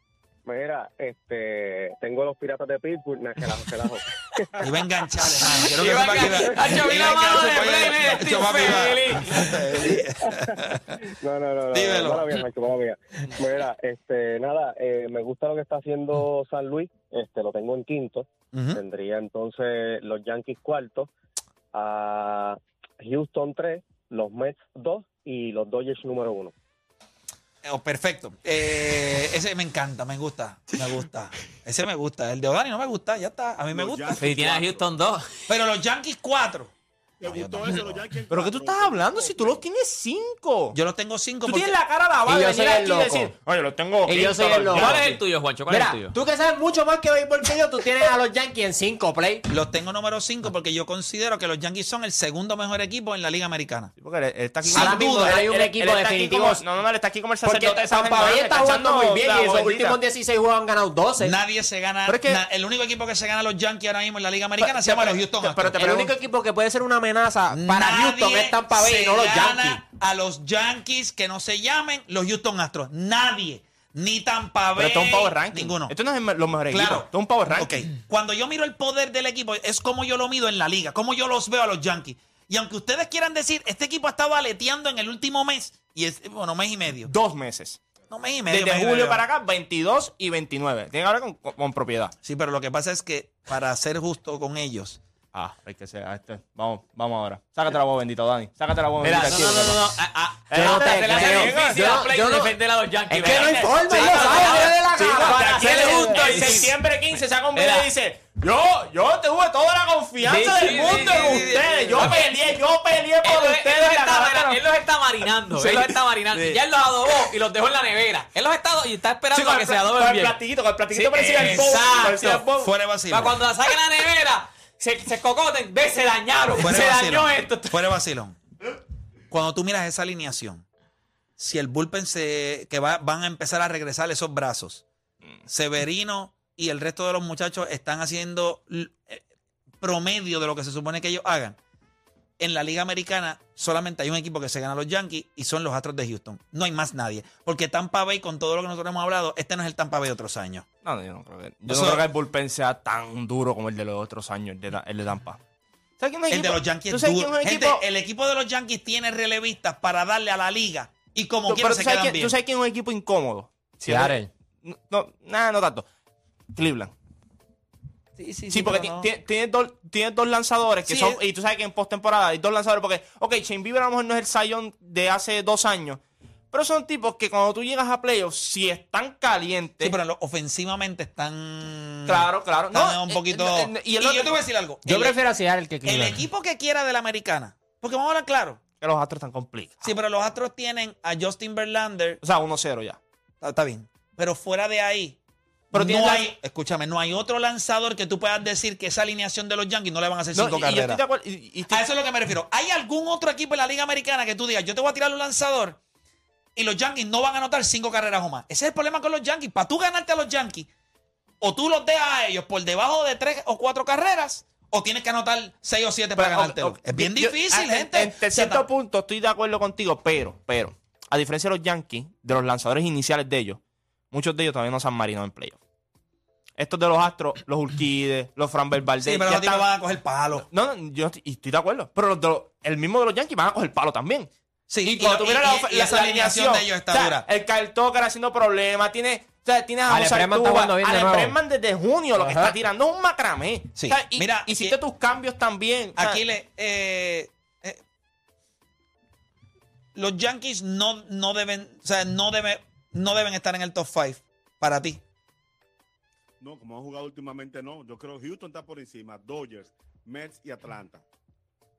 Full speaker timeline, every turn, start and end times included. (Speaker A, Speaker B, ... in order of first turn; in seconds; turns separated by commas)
Speaker A: 0.5-4.8, Speaker B: 4.6-11.0, Speaker C: 5.5-9.5, Speaker A: 9.8-21.1, Speaker B: 11.7-12.3, Speaker B: 18.5-18.8, Speaker A: 21.7-26.5, Speaker B: 27.6-34.3, Speaker D: 33.7-34.9, Speaker C: 34.2-35.4, Speaker B: 35.5-36.7, Speaker D: 37.2-39.6, Speaker B: 37.2-38.0, Speaker E: 38.3-40.8, Speaker B: 40.7-41.8, Speaker E: 41.4-45.2, Speaker F: 42.3-43.3, Speaker F: 44.0-45.0, Speaker C: 44.7-46.1, Speaker F: 45.7-49.5, Speaker B: 49.5-53.9, Speaker E: 54.0-60.0, Speaker B: 54.6-55.5, Speaker F: 54.7-56.6, Speaker F: 57.4-61.4, Speaker B: 61.2-65.9, Speaker E: 62.1-62.4, Speaker E: 64.6-66.1, Speaker F: 65.6-69.8, Speaker B: 67.5-75.9, Speaker E: 74.8-77.8, Speaker B: 76.7-87.1, Speaker E: 87.0-87.8, Speaker B: 88.1-89.2, Speaker E: 88.5-92.1, Speaker B: 92.2-95.0, Speaker E: 95.3-100.0, Speaker C: 99.0-106.8, Speaker E: 100.5-102.0, Speaker F: 100.5-102.5, Speaker F: 103.1-106.6, Speaker E: 103.1-114.6, Speaker C: 107.5-107.9, Speaker C: 110.2-112.3, Speaker C: 113.2-120.4, Speaker E: 115.5-116.6, Speaker E: 119.3-122.7, Speaker C: 120.9-122.5, Speaker B: 122.6-123.4, Speaker C: 123.1-127.8, Speaker B: 126.5-128.4, Speaker B: 129.3-130.6, Speaker B: 131.4-134.8, Speaker B: 135.5-139.2, Speaker B: 139.8-141.6, Speaker B: 142.4-150.7, Speaker E: 150.8-155.4, Speaker B: 151.7-152.1, Speaker E: 156.0-157.8, Speaker B: 156.3-162.3, Speaker E: 161.4-165.9, Speaker F: 163.8-164.3, Speaker E: 166.5-166.9, Speaker B: 168.2-169.1, Speaker E: 168.5-176.0, Speaker B: 170.9-171.2, Speaker E: 176.5-179.9, Speaker B: 179.8-185.2, Speaker E: 182.1-184.4, Speaker F: 184.8-186.2, Speaker B: 185.8-188.6, Speaker E: 188.8-189.9, Speaker B: 189.8-192.2, Speaker E: 192.2-193.0, Speaker B: 193.4-195.2, Speaker B: 195.7-201.0, Speaker E: 195.7-196.3, Speaker E: 200.3-201.8, Speaker B: 201.7-205.8, Speaker B: 206.6-210.7, Speaker B: 211.4-218.6, Speaker E: 216.2-223.6, Speaker E: 224.1-225.6, Speaker E: 226.6-229.7, Speaker B: 229.0-230.4, Speaker E: 230.4-234.3, Speaker B: 234.7-237.2, Speaker E: 234.8-246.2, Speaker F: 239.9-241.4, Speaker F: 242.2-242.5, Speaker B: 243.8-244.8, Speaker B: 246.0-247.8, Speaker B: 249.9-255.0, Speaker D: 256.4-261.0